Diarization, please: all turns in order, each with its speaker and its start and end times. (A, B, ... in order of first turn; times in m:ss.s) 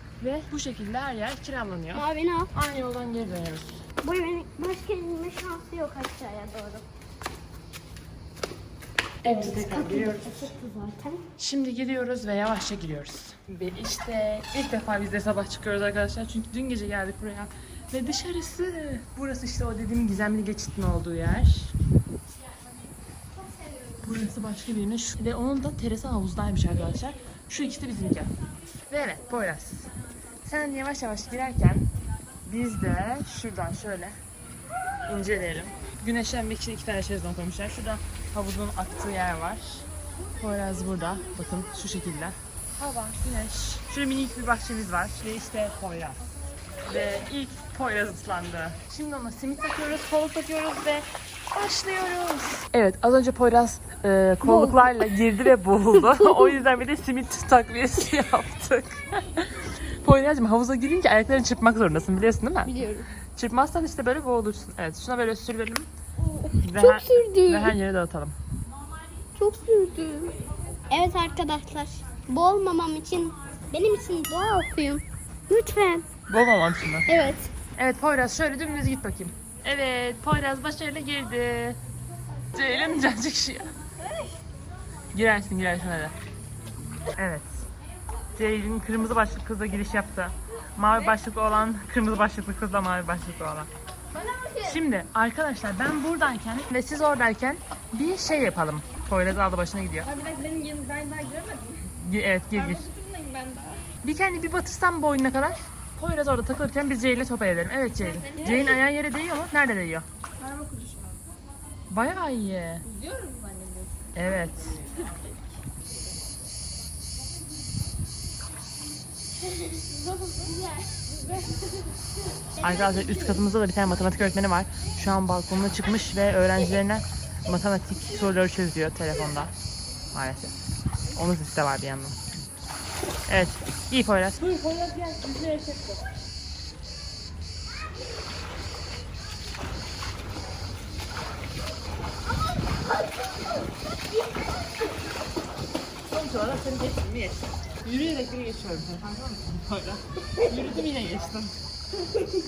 0:00.2-0:03.8 A
0:01.9-0:02.5 B
0:04.0-0:06.8 B
0:09.2-0:10.5 A
0:09.2-0:11.2 B
0:11.4-0:21.7 A
0:23.3-0:24.1 B
0:24.0-0:28.3 A
0:28.9-0:31.9 A
0:32.4-0:34.2 A
0:35.1-0:46.2 A
0:46.8-1:05.9 A
0:54.4-0:55.1 B
0:56.0-0:56.5 B
1:02.6-1:03.1 B
1:06.2-1:07.8 B
1:06.6-1:08.4 A
1:09.4-1:10.4 B
1:10.9-1:16.1 B
1:16.3-1:21.8 A
1:17.0-1:17.5 B
1:22.5-1:23.7 A
1:25.1-1:26.1 A
1:27.2-1:27.6 A
1:28.3-1:33.7 A
1:34.1-1:34.8 B
1:34.6-1:40.1 A
1:40.1-1:41.7 B
1:40.2-1:41.7 C
1:41.9-1:42.9 A
1:42.7-1:43.8 B
1:42.9-1:43.8 C
1:44.0-1:50.0 A
1:48.2-1:48.8 B
1:50.4-1:51.2 C
1:51.9-1:52.8 A
1:53.0-1:53.8 C
1:54.1-1:54.9 A
2:00.4-2:01.0 B
2:02.6-2:09.5 A
2:10.1-2:10.6 A
2:11.1-2:12.2 A
2:13.3-2:16.0 A
2:26.1-2:31.6 A